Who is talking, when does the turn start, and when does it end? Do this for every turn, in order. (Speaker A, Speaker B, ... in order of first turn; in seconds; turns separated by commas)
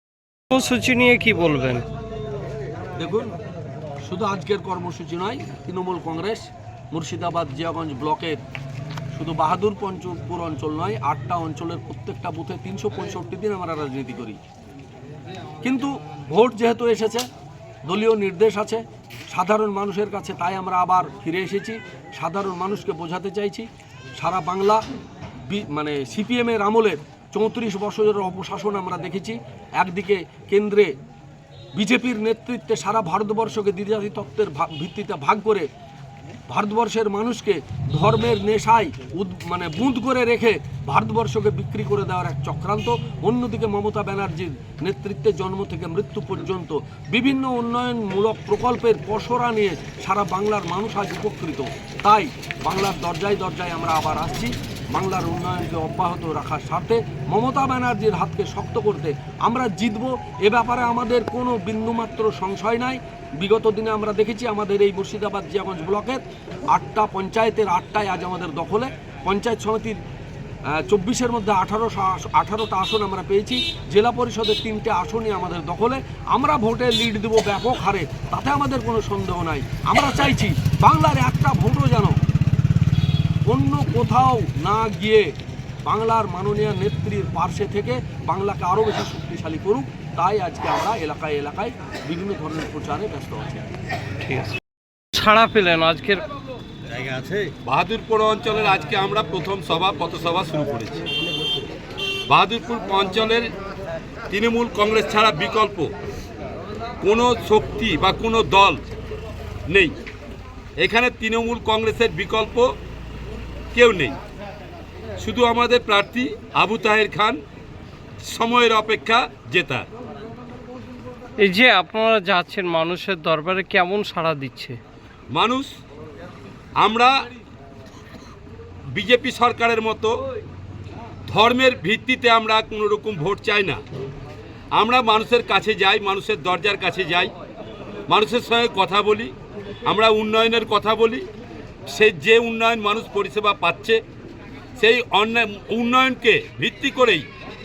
Speaker A: 0.5-1.9, Speaker B: 3.0-3.3, Speaker B: 4.1-8.4, Speaker B: 9.1-14.4, Speaker B: 15.6-17.2, Speaker B: 17.9-23.7, Speaker B: 24.2-24.8, Speaker B: 25.5-30.9, Speaker B: 31.8-35.7, Speaker B: 36.5-66.2, Speaker B: 66.7-70.0, Speaker B: 70.7-82.2, Speaker B: 83.5-85.3, Speaker B: 85.9-93.7, Speaker A: 94.2-94.5, Speaker A: 95.1-96.2, Speaker C: 97.7-101.1, Speaker C: 102.3-103.5, Speaker C: 104.3-105.9, Speaker C: 107.0-108.8, Speaker C: 109.7-110.0, Speaker C: 110.8-112.7, Speaker C: 113.7-114.2, Speaker C: 115.2-117.4, Speaker C: 118.2-119.9, Speaker A: 121.4-124.8, Speaker C: 125.3-125.7, Speaker C: 126.8-127.1, Speaker C: 128.9-130.2, Speaker C: 131.3-133.8, Speaker C: 134.8-137.3, Speaker C: 138.1-139.3, Speaker C: 139.9-141.3, Speaker C: 141.9-144.0, Speaker C: 144.8-147.3